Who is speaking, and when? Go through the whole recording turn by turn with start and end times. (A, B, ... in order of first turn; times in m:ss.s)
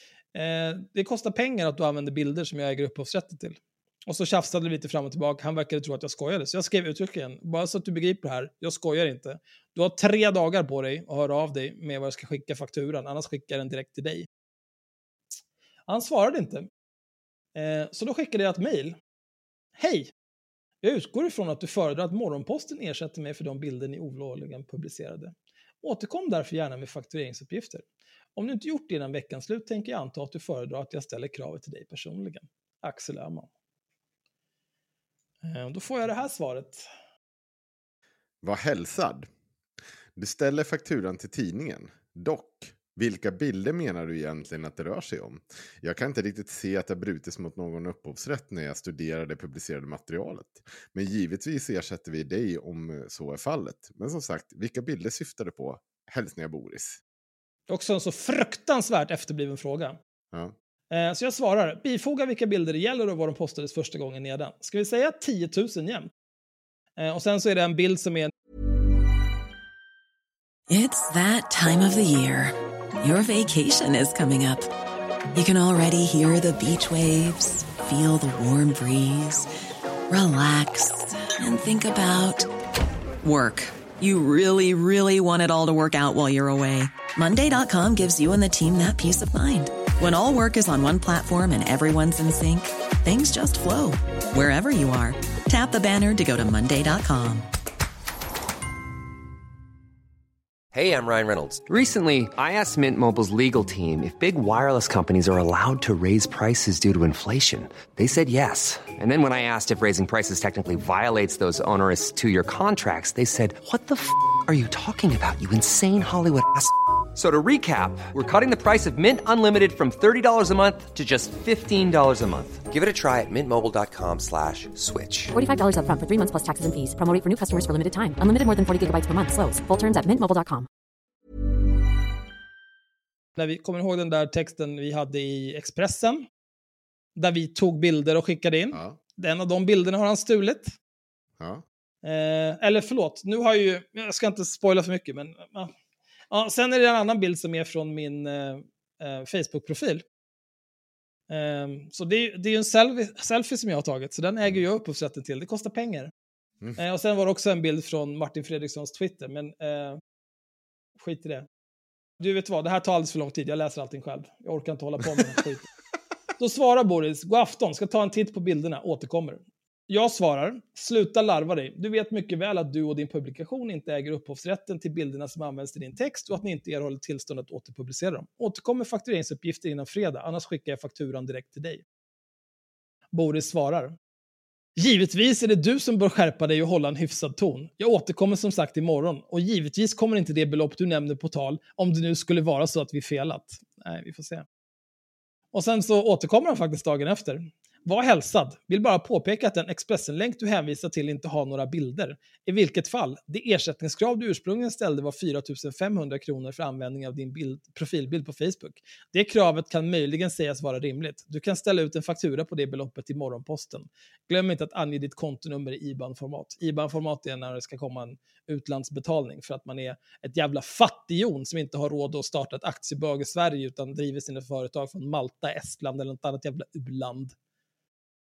0:00.3-0:14.3 A
0:15.9-0:16.7 A
0:17.5-0:19.0 A
0:19.8-0:20.1 A
0:20.8-0:27.8 A
0:28.4-0:33.5 A
0:35.4-0:36.9 A
0:38.4-0:39.3 B
0:40.2-0:57.0 B
0:57.7-1:00.0 A
1:00.9-1:06.1 A
1:07.0-1:08.3 A
1:10.7-1:14.7 C
1:15.3-1:19.5 C
1:20.1-1:22.5 C
1:23.2-1:37.5 C
1:40.7-2:05.3 D
2:05.3-2:10.7 E
2:13.4-2:16.2 A
2:17.2-2:20.7 A
2:18.7-2:19.0 B
2:22.0-2:25.7 A
2:26.3-2:30.0 A
2:31.3-2:36.1 A
2:36.8-2:40.0 A
2:41.0-2:41.5 A
2:42.2-2:45.6 A
2:46.4-3:01.8 A
3:03.1-3:03.9 A
3:04.8-3:14.4 A
3:15.5-3:47.3 A